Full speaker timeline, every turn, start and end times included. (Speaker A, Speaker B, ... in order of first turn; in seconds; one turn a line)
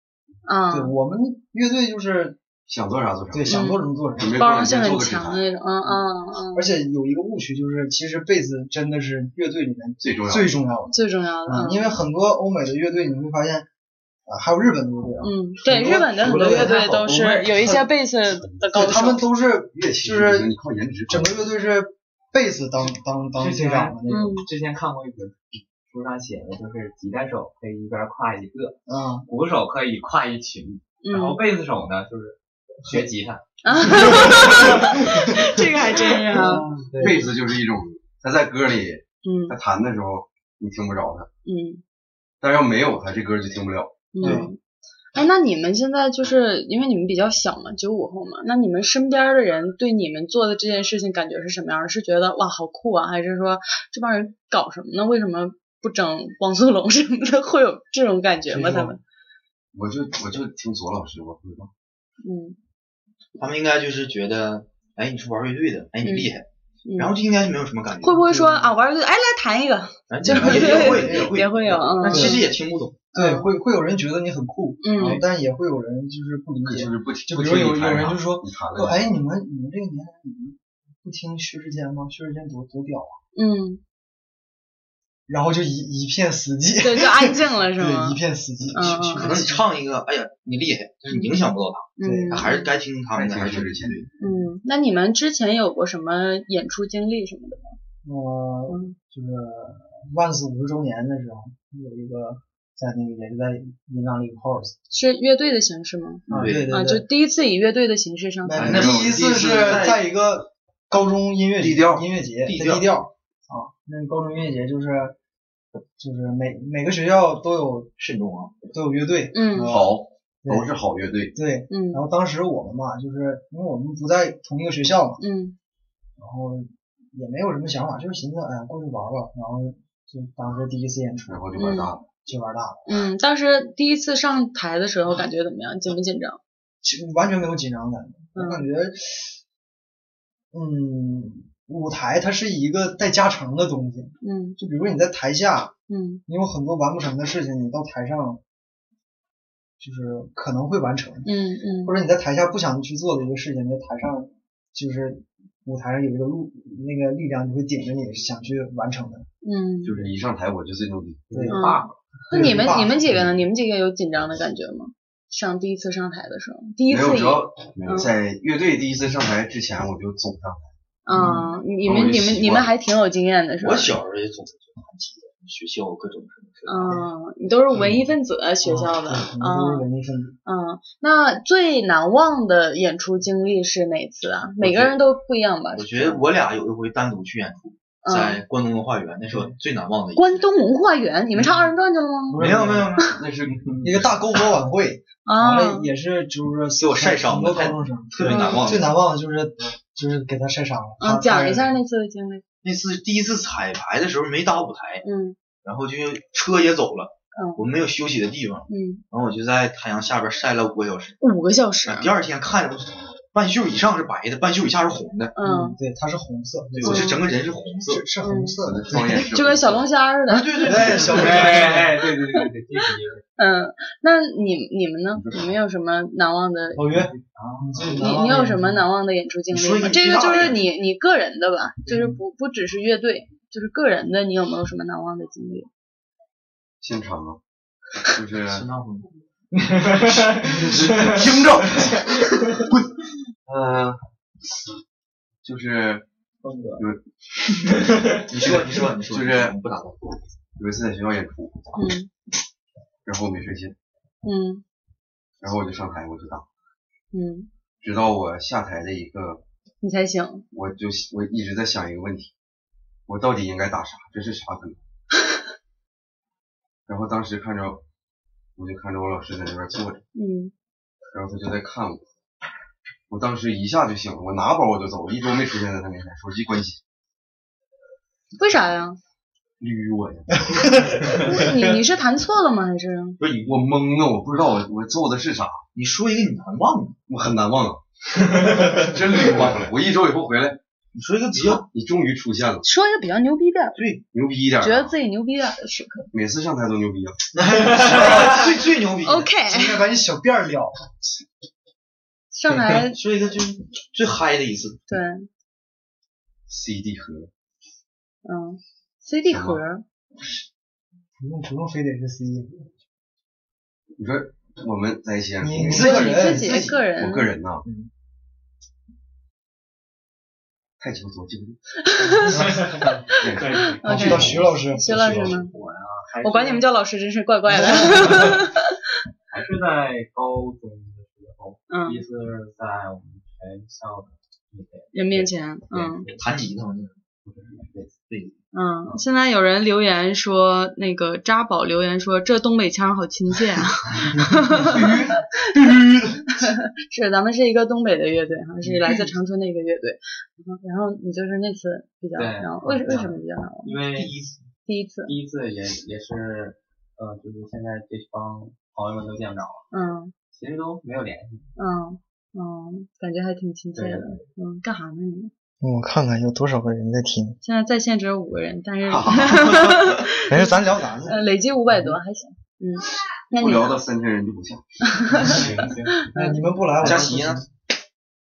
Speaker A: 0.5-0.9
Speaker B: 0.7-2.4
Speaker C: 2.6-5.4
Speaker B: 3.3-4.4
Speaker A: 3.5-6.7
Speaker B: 6.5-13.7
Speaker C: 10.0-10.6
Speaker A: 10.9-11.9
Speaker B: 14.3-16.8
Speaker A: 15.2-19.2
Speaker D: 16.4-17.4
Speaker C: 18.3-18.7
Speaker B: 18.7-20.5
Speaker C: 19.7-21.5
Speaker B: 21.1-24.4
Speaker D: 23.4-33.4
Speaker A: 24.1-24.4
Speaker B: 28.9-29.3
Speaker A: 31.0-31.4
Speaker A: 33.6-36.6
Speaker B: 33.7-35.1
Speaker B: 36.3-37.3
Speaker C: 37.0-41.3
Speaker A: 39.2-39.6
Speaker A: 41.5-41.8
Speaker C: 42.4-44.5
Speaker A: 44.1-44.6
Speaker B: 44.2-44.5
Speaker A: 45.1-59.0
Speaker B: 58.5-58.9
Speaker C: 59.7-61.7
Speaker A: 62.2-62.5
Speaker E: 63.4-68.3
Speaker A: 66.0-66.3
Speaker A: 66.8-67.1
Speaker A: 68.0-72.5
Speaker B: 68.2-68.8
Speaker E: 70.1-73.0
Speaker B: 70.2-71.3
Speaker B: 72.1-72.5
Speaker B: 73.1-83.2
Speaker A: 73.2-73.5
Speaker A: 74.8-75.2
Speaker C: 76.6-79.0
Speaker A: 83.3-83.8
Speaker B: 85.3-89.7
Speaker A: 86.8-88.2
Speaker A: 88.7-89.3
Speaker E: 89.1-94.1
Speaker A: 91.1-91.4
Speaker A: 92.0-92.7
Speaker B: 92.0-92.5
Speaker C: 93.1-94.1
Speaker A: 94.2-97.8
Speaker B: 98.0-104.7
Speaker A: 98.7-98.9
Speaker A: 104.9-108.7
Speaker B: 106.3-107.0
Speaker E: 106.3-106.8
Speaker B: 108.4-115.2
Speaker C: 108.5-109.8
Speaker E: 108.6-110.1
Speaker C: 111.6-112.0
Speaker E: 112.4-112.9
Speaker B: 116.0-117.9
Speaker E: 118.0-118.6
Speaker B: 118.7-120.7
Speaker A: 119.3-119.8
Speaker C: 119.6-121.3
Speaker B: 121.3-125.2
Speaker A: 121.7-122.0
Speaker A: 125.2-125.5
Speaker B: 126.2-131.4
Speaker C: 131.3-132.1
Speaker A: 131.6-131.9
Speaker B: 132.2-132.8
Speaker A: 132.8-136.4
Speaker B: 136.8-139.4
Speaker A: 138.3-138.6
Speaker B: 140.5-145.7
Speaker A: 144.2-144.6
Speaker A: 145.9-146.2
Speaker B: 146.3-148.4
Speaker B: 149.8-151.3
Speaker A: 151.2-151.9
Speaker B: 151.8-159.3
Speaker A: 159.4-160.0
Speaker C: 159.8-161.9
Speaker B: 161.3-161.7
Speaker A: 161.5-168.1
Speaker B: 162.3-163.1
Speaker C: 166.9-170.7
Speaker A: 171.0-173.9
Speaker B: 171.1-171.5
Speaker C: 171.7-172.8
Speaker E: 173.6-177.0
Speaker A: 176.7-179.8
Speaker B: 178.6-180.3
Speaker A: 180.4-186.2
Speaker E: 184.6-184.9
Speaker E: 185.7-190.4
Speaker A: 188.0-188.4
Speaker B: 189.3-189.6
Speaker A: 190.1-192.4
Speaker B: 192.3-192.9
Speaker E: 192.3-193.8
Speaker C: 193.0-193.9
Speaker B: 193.8-201.8
Speaker A: 195.2-195.9
Speaker E: 196.8-199.0
Speaker A: 198.2-198.6
Speaker A: 201.0-202.4
Speaker E: 202.6-205.0
Speaker A: 205.0-205.3
Speaker E: 205.6-211.2
Speaker A: 207.3-207.6
Speaker A: 208.7-209.0
Speaker A: 211.2-212.1
Speaker E: 211.8-215.3
Speaker A: 215.3-215.8
Speaker B: 215.4-217.2
Speaker E: 216.7-218.0
Speaker A: 216.8-217.2
Speaker B: 217.8-219.3
Speaker A: 218.2-218.6
Speaker C: 218.6-219.9
Speaker A: 219.1-221.4
Speaker E: 220.3-221.8
Speaker B: 220.6-222.0
Speaker D: 221.1-223.2
Speaker A: 223.4-227.0
Speaker C: 225.1-225.5
Speaker B: 226.8-228.9
Speaker D: 226.9-227.6
Speaker A: 227.8-235.7
Speaker E: 229.5-230.6
Speaker B: 231.8-232.2
Speaker C: 236.8-237.4
Speaker C: 238.1-238.7
Speaker E: 238.4-239.1
Speaker E: 239.8-242.7
Speaker C: 240.8-241.9
Speaker C: 243.5-244.0
Speaker C: 245.4-246.1
Speaker B: 246.4-246.8
Speaker E: 248.2-250.2
Speaker C: 249.0-249.6
Speaker C: 250.6-251.8
Speaker A: 251.7-252.1
Speaker C: 253.0-253.7
Speaker A: 254.2-254.6
Speaker C: 255.4-256.4
Speaker A: 257.1-257.5
Speaker C: 257.8-259.4
Speaker A: 259.8-260.4
Speaker C: 260.5-262.3
Speaker C: 263.1-264.8
Speaker C: 266.9-267.8
Speaker C: 268.6-270.0
Speaker A: 270.1-270.5
Speaker C: 271.1-272.0
Speaker C: 273.1-276.8
Speaker A: 278.4-279.0
Speaker C: 279.6-281.3
Speaker B: 280.5-281.0
Speaker A: 281.1-283.2
Speaker E: 283.2-283.7
Speaker C: 283.4-285.6
Speaker E: 285.7-287.0
Speaker C: 287.1-290.6
Speaker E: 290.9-291.7
Speaker C: 291.6-292.6
Speaker A: 292.6-293.8
Speaker E: 293.7-294.0
Speaker C: 294.1-294.9
Speaker A: 294.6-296.1
Speaker C: 296.1-297.3
Speaker E: 297.3-299.3
Speaker B: 297.6-298.5
Speaker A: 299.0-299.8
Speaker B: 299.4-300.9
Speaker A: 302.3-303.0
Speaker E: 302.7-304.8
Speaker A: 304.9-305.3
Speaker C: 306.5-307.3
Speaker A: 308.2-309.8
Speaker C: 309.3-309.6
Speaker B: 311.2-312.7
Speaker C: 314.0-317.6
Speaker B: 315.4-316.8
Speaker A: 315.6-317.3
Speaker C: 320.8-321.6
Speaker A: 321.8-322.8
Speaker B: 322.3-322.7
Speaker D: 322.6-322.9
Speaker C: 323.1-324.1
Speaker F: 323.4-325.4
Speaker A: 323.5-325.5
Speaker D: 323.6-326.6
Speaker B: 323.8-324.8
Speaker A: 326.2-328.6
Speaker D: 327.6-328.4
Speaker D: 329.3-336.4
Speaker A: 331.7-332.0
Speaker A: 334.9-336.1
Speaker E: 336.1-337.0
Speaker D: 337.2-338.0
Speaker E: 338.0-338.4
Speaker A: 338.5-345.3
Speaker B: 344.2-345.9
Speaker A: 346.4-353.8
Speaker D: 352.1-354.1
Speaker E: 353.9-354.5
Speaker A: 354.6-355.1
Speaker D: 355.0-359.7
Speaker A: 359.7-360.1
Speaker D: 360.3-361.5
Speaker A: 361.6-365.3
Speaker D: 363.7-364.2
Speaker B: 365.6-367.4
Speaker A: 367.4-373.8
Speaker C: 368.9-369.9
Speaker B: 370.2-371.2
Speaker C: 373.3-374.6
Speaker A: 374.8-375.4
Speaker F: 375.1-375.9
Speaker A: 376.0-376.4
Speaker B: 376.1-377.5
Speaker E: 376.8-377.4